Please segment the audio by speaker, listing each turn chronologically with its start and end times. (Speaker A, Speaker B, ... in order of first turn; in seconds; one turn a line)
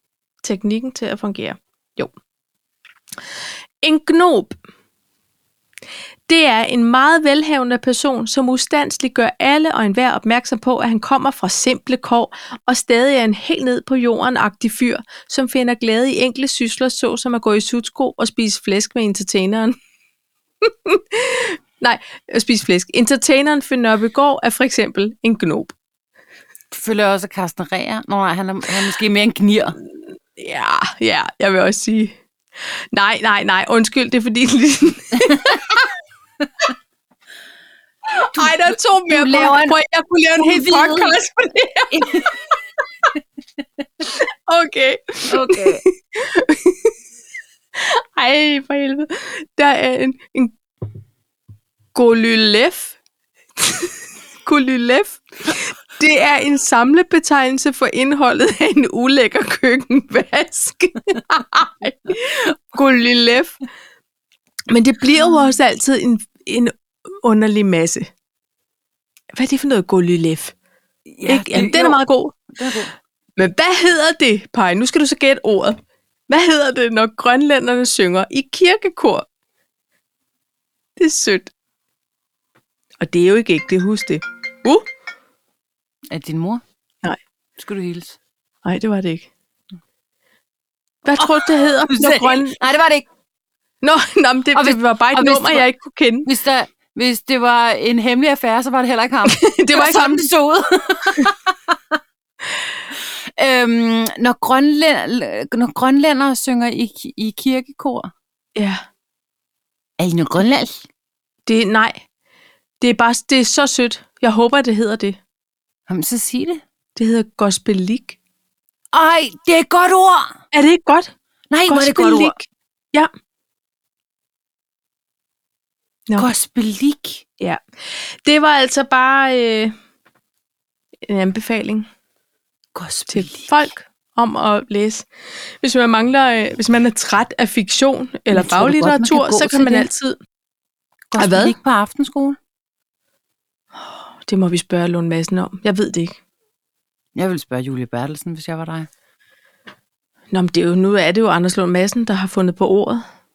Speaker A: 0.4-2.1
Speaker A: 3.8-4.6
Speaker A: 6.3-19.8
Speaker A: 20.6-25.8
Speaker B: 26.7-29.8
Speaker A: 30.4-35.9
Speaker B: 35.2-35.7
Speaker A: 38.1-42.6
Speaker B: 38.3-39.8
Speaker B: 40.4-41.2
Speaker B: 41.9-42.4
Speaker A: 44.1-46.9
Speaker B: 45.3-45.8
Speaker A: 47.8-50.6
Speaker A: 51.9-53.0
Speaker A: 53.6-63.6
Speaker A: 64.7-66.7
Speaker A: 67.2-68.1
Speaker A: 69.4-70.5
Speaker B: 71.1-72.9
Speaker A: 71.2-72.4
Speaker A: 73.4-79.3
Speaker A: 81.0-81.5
Speaker A: 83.0-84.9
Speaker B: 86.1-86.6
Speaker B: 87.6-88.2
Speaker A: 88.7-89.3
Speaker A: 91.0-92.6
Speaker B: 91.2-93.0
Speaker A: 93.8-96.3
Speaker B: 94.5-95.7
Speaker B: 96.3-101.8
Speaker A: 99.3-100.2
Speaker B: 102.9-108.1
Speaker A: 108.6-108.8
Speaker B: 110.0-110.8
Speaker A: 111.5-112.0
Speaker A: 112.8-115.2
Speaker B: 115.9-116.6
Speaker A: 117.0-118.2
Speaker B: 118.9-120.3
Speaker A: 120.5-121.1
Speaker B: 121.5-122.4
Speaker A: 121.7-123.1
Speaker B: 126.2-127.2
Speaker A: 127.4-129.8
Speaker A: 131.1-131.9
Speaker B: 132.7-133.7
Speaker A: 133.1-140.2
Speaker B: 138.3-139.9
Speaker B: 141.1-142.4
Speaker A: 141.2-141.5
Speaker A: 143.8-146.2
Speaker B: 147.2-148.9
Speaker A: 150.3-153.1